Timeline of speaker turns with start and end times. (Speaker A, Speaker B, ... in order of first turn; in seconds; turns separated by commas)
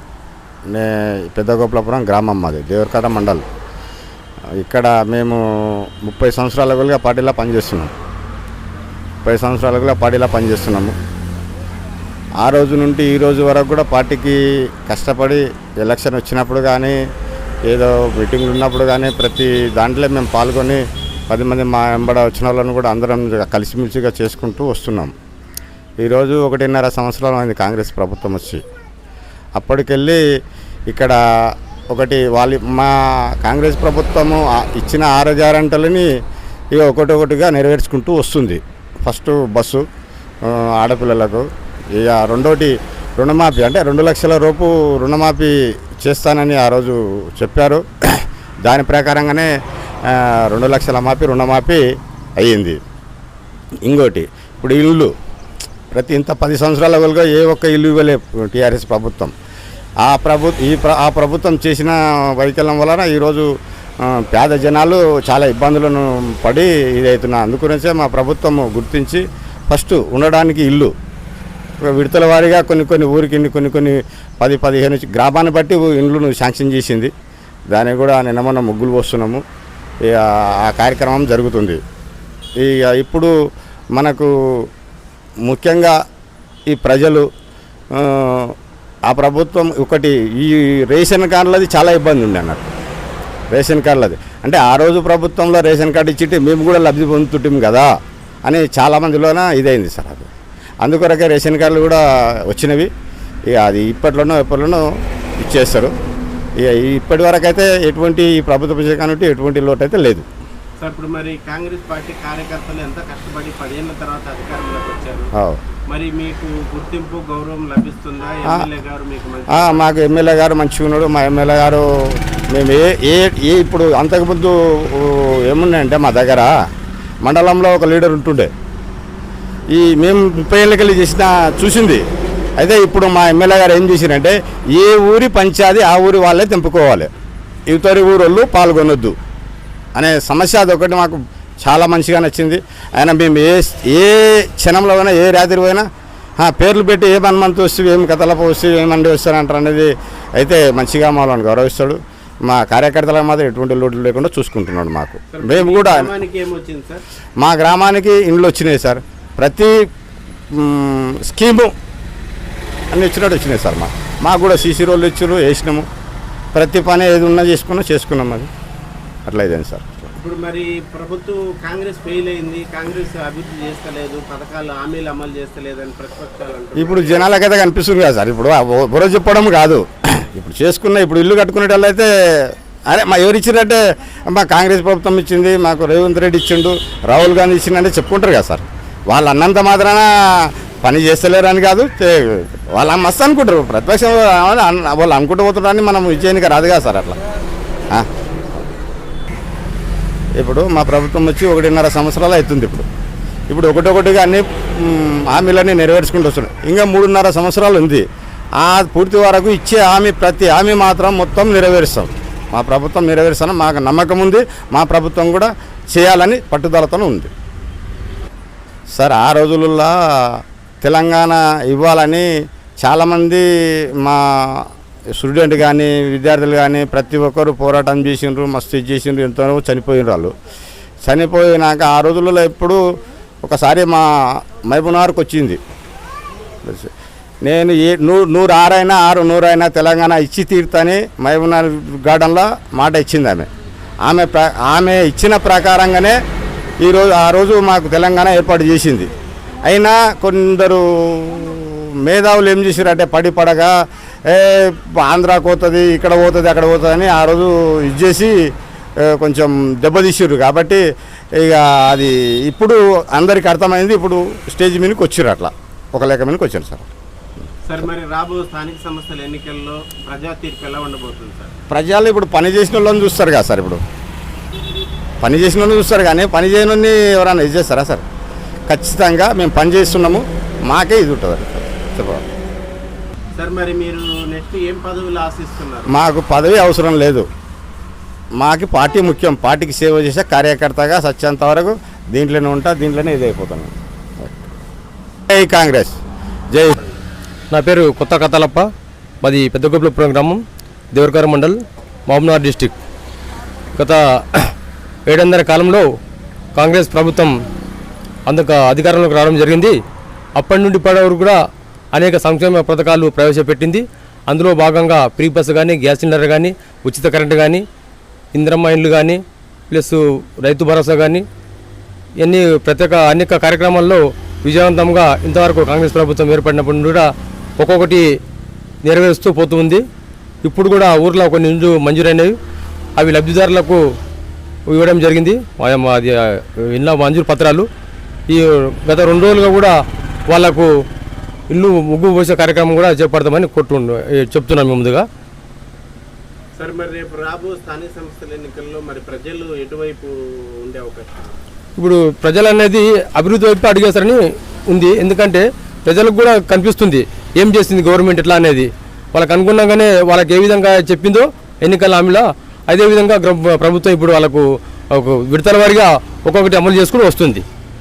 Speaker A: 0.7-3.4, Speaker A: 4.6-7.9, Speaker A: 9.2-10.9, Speaker A: 12.4-17.0, Speaker A: 17.7-25.1, Speaker A: 26.0-28.6, Speaker A: 29.6-30.2, Speaker A: 30.9-36.1, Speaker A: 36.7-39.9, Speaker A: 40.4-49.5, Speaker A: 50.0-51.8, Speaker A: 52.4-52.8, Speaker A: 53.9-55.1, Speaker A: 55.9-59.3, Speaker A: 60.0-63.5, Speaker A: 64.0-70.9, Speaker A: 71.8-77.1, Speaker A: 77.7-79.4, Speaker A: 80.0-81.8, Speaker A: 82.6-83.3, Speaker A: 84.0-84.7, Speaker A: 85.5-86.0, Speaker A: 86.7-87.3, Speaker A: 87.9-88.6, Speaker A: 89.1-92.7, Speaker A: 93.5-97.9, Speaker A: 98.5-100.3, Speaker A: 100.8-102.9, Speaker A: 103.5-104.9, Speaker A: 105.4-105.9, Speaker A: 106.6-110.3, Speaker B: 110.8-115.3, Speaker B: 115.9-119.9, Speaker A: 119.5-126.5, Speaker A: 127.2-128.5, Speaker A: 129.7-132.0, Speaker A: 132.6-137.1, Speaker A: 137.7-139.2, Speaker A: 139.9-145.9, Speaker A: 146.4-156.1, Speaker B: 155.3-157.0, Speaker A: 157.4-159.8, Speaker A: 160.5-161.7, Speaker A: 162.9-165.9, Speaker A: 166.5-168.5, Speaker A: 169.3-170.1, Speaker B: 170.2-177.3, Speaker A: 176.8-197.2, Speaker A: 197.9-198.7, Speaker A: 200.4-202.9, Speaker A: 203.5-208.1, Speaker A: 208.6-217.3, Speaker A: 219.0-222.3, Speaker A: 222.8-230.3, Speaker A: 231.1-232.8, Speaker A: 233.4-235.6, Speaker A: 236.7-236.9, Speaker A: 237.4-243.5, Speaker A: 244.1-246.2, Speaker A: 246.8-249.1, Speaker A: 249.7-253.8, Speaker A: 254.3-258.4, Speaker A: 259.0-260.8, Speaker A: 261.4-266.9, Speaker B: 267.7-271.5, Speaker A: 271.7-273.8, Speaker A: 275.2-278.0, Speaker A: 278.7-282.3, Speaker B: 283.4-285.9, Speaker A: 285.9-287.3, Speaker A: 288.4-294.5, Speaker A: 295.3-296.0, Speaker A: 296.5-296.9, Speaker C: 297.5-298.7, Speaker C: 299.2-302.7, Speaker C: 303.8-304.5, Speaker C: 305.1-305.9, Speaker C: 306.6-307.4, Speaker C: 308.3-309.8, Speaker C: 310.4-311.4, Speaker C: 311.9-317.6, Speaker C: 318.3-321.3, Speaker C: 322.2-327.1, Speaker C: 327.6-328.1, Speaker C: 328.8-329.8, Speaker C: 330.4-332.4, Speaker C: 333.0-333.8, Speaker C: 334.7-337.7, Speaker C: 338.3-339.8, Speaker C: 340.3-340.7, Speaker C: 341.5-345.1, Speaker B: 346.6-351.3, Speaker C: 351.8-367.4